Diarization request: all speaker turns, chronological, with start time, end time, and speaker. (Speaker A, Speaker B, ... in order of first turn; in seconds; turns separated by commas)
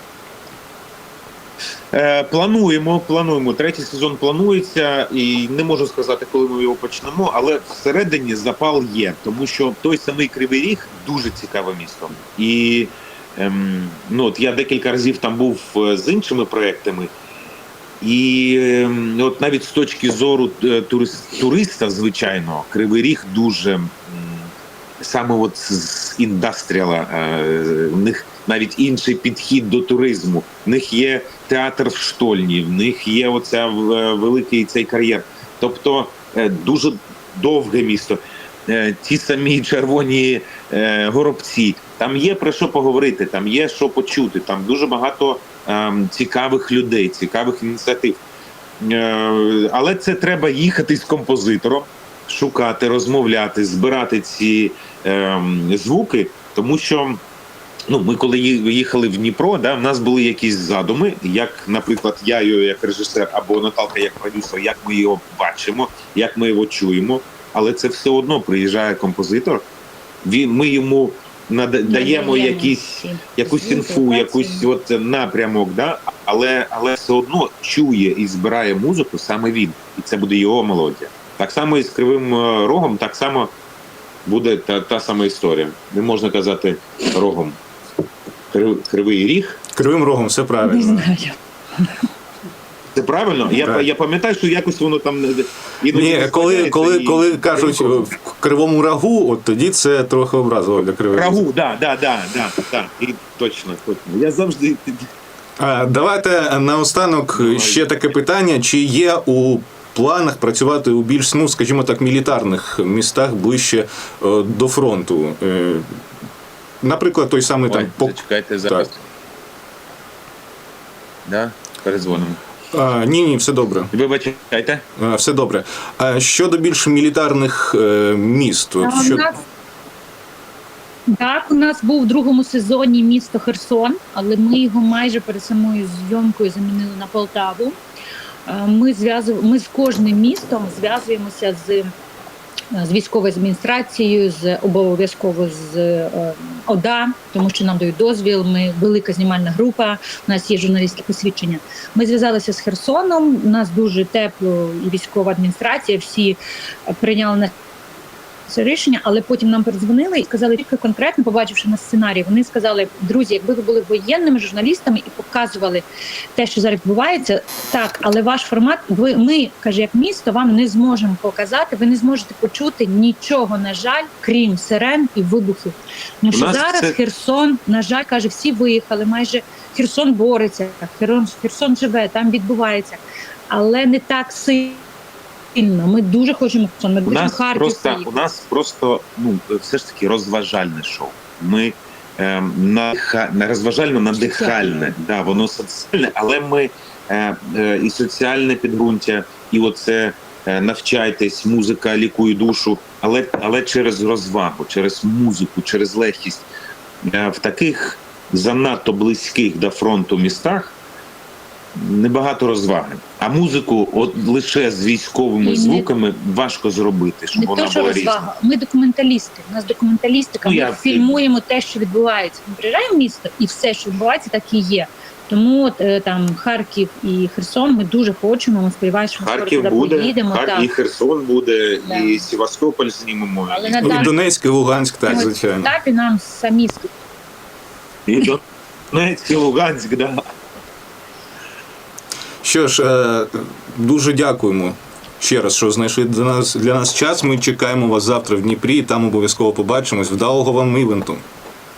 Speaker A: 1.9-17.1, Speaker A: 18.0-48.2, Speaker A: 48.8-57.2, Speaker A: 57.9-69.6, Speaker A: 70.2-83.5, Speaker B: 71.8-74.7, Speaker A: 84.2-87.6, Speaker A: 88.5-89.6, Speaker C: 89.7-91.1, Speaker B: 90.6-92.0, Speaker A: 92.9-98.1, Speaker C: 95.9-101.4, Speaker A: 101.1-105.1, Speaker C: 105.6-115.8, Speaker A: 107.3-107.8, Speaker C: 116.8-118.9, Speaker A: 117.7-119.0, Speaker A: 121.2-122.4, Speaker C: 122.7-123.9, Speaker A: 123.9-124.8, Speaker C: 125.0-129.3, Speaker B: 128.8-129.3, Speaker B: 131.1-137.8, Speaker B: 138.4-141.9, Speaker B: 142.7-157.5, Speaker B: 158.5-184.8, Speaker A: 176.3-177.0, Speaker B: 185.5-188.1, Speaker A: 187.1-206.4, Speaker B: 194.1-194.9, Speaker A: 207.0-210.8, Speaker A: 211.7-218.2, Speaker B: 215.4-215.9, Speaker B: 217.3-230.7, Speaker A: 220.4-221.2, Speaker A: 229.2-234.1, Speaker B: 231.8-232.2, Speaker B: 233.5-234.1, Speaker C: 233.8-235.7, Speaker B: 235.0-236.9, Speaker A: 238.1-240.2, Speaker C: 242.4-251.2